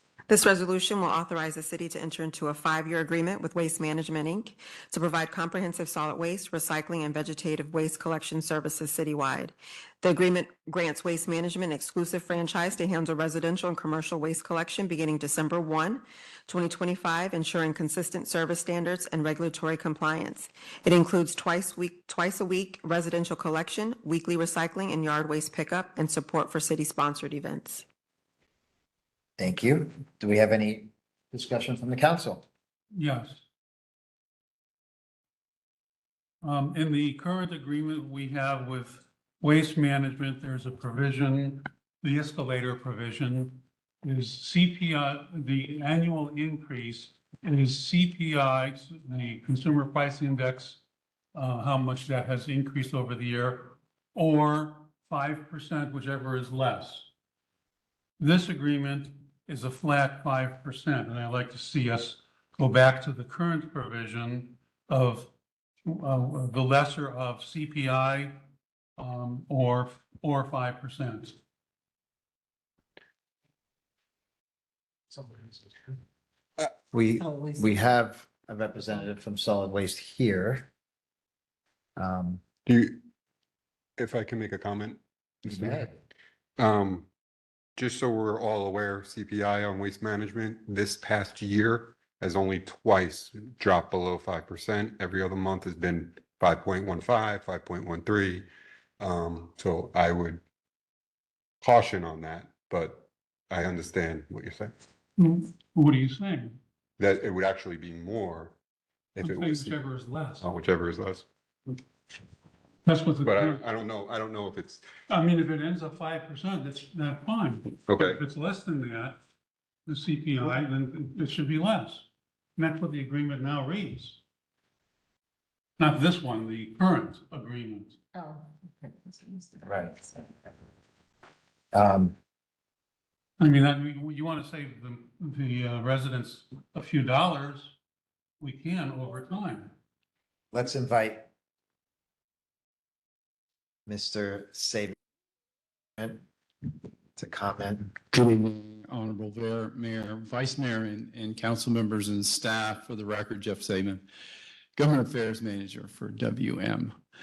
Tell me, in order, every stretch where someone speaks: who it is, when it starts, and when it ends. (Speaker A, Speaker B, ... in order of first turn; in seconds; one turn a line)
Speaker A: 0.3-27.9
Speaker B: 29.4-32.5
Speaker C: 33.0-33.4
Speaker C: 36.4-50.8
Speaker C: 51.4-57.1
Speaker C: 58.2-65.3
Speaker C: 65.8-68.3
Speaker C: 69.0-71.4
Speaker B: 76.9-80.7
Speaker D: 77.2-77.9
Speaker B: 82.0-82.4
Speaker E: 82.7-83.0
Speaker E: 84.0-85.9
Speaker B: 85.5-85.9
Speaker E: 86.6-87.1
Speaker E: 87.8-98.5
Speaker E: 99.0-100.4
Speaker E: 101.6-104.7
Speaker C: 105.2-106.6
Speaker E: 107.0-108.5
Speaker E: 109.2-109.8
Speaker C: 109.2-110.5
Speaker E: 110.4-111.3
Speaker C: 112.9-113.6
Speaker E: 113.2-114.9
Speaker C: 115.1-119.2
Speaker E: 117.9-118.2
Speaker C: 119.9-122.1
Speaker C: 122.6-124.2
Speaker C: 125.8-128.0
Speaker D: 128.1-130.1
Speaker B: 129.7-130.0
Speaker B: 131.7-132.2
Speaker C: 133.4-137.8
Speaker C: 138.4-139.7
Speaker B: 140.5-141.3
Speaker B: 143.9-145.0
Speaker B: 146.0-146.2
Speaker B: 147.1-147.9
Speaker F: 148.1-154.1
Speaker F: 154.8-157.0